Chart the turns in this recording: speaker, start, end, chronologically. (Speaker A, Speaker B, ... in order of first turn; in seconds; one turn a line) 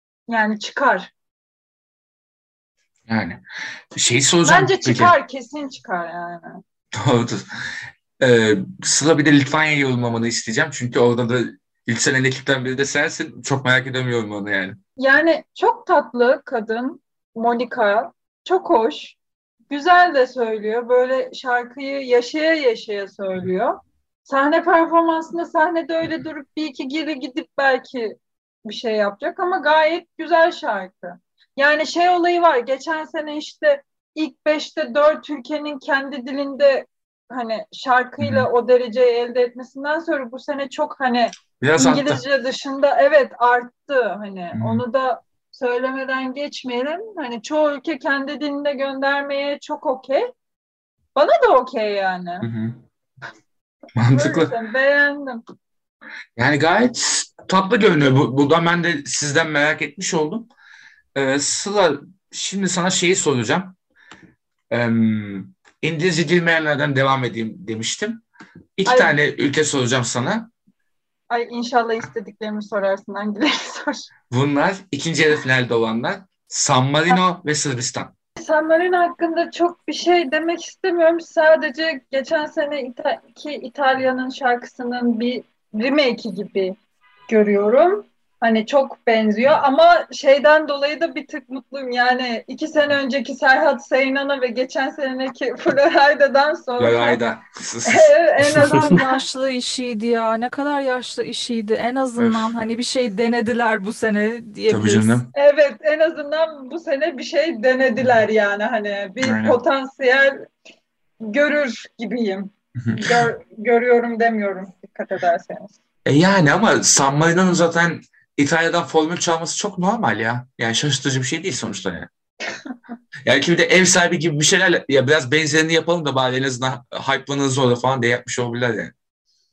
Speaker A: 0.3-1.1
Speaker B: 3.1-3.4
Speaker B: 3.9-5.1
Speaker A: 4.4-6.6
Speaker B: 6.9-7.5
Speaker B: 8.2-14.8
Speaker A: 15.0-19.2
Speaker A: 19.7-50.3
Speaker B: 38.2-38.5
Speaker B: 41.6-42.2
Speaker B: 44.5-44.8
Speaker A: 51.2-52.5
Speaker B: 52.4-52.8
Speaker B: 54.0-54.5
Speaker A: 54.1-55.4
Speaker B: 56.4-60.5
Speaker B: 61.1-63.8
Speaker B: 64.7-68.2
Speaker B: 68.8-70.5
Speaker A: 68.9-69.1
Speaker A: 71.3-74.1
Speaker B: 74.3-78.1
Speaker A: 78.4-86.8
Speaker A: 87.3-97.2
Speaker B: 96.8-98.7
Speaker A: 97.9-99.2
Speaker C: 98.9-105.2
Speaker B: 102.2-102.5
Speaker B: 104.7-105.3
Speaker A: 105.3-110.4
Speaker B: 109.2-109.6
Speaker A: 111.2-115.7
Speaker B: 112.8-113.3
Speaker B: 116.1-122.1
Speaker B: 123.2-128.9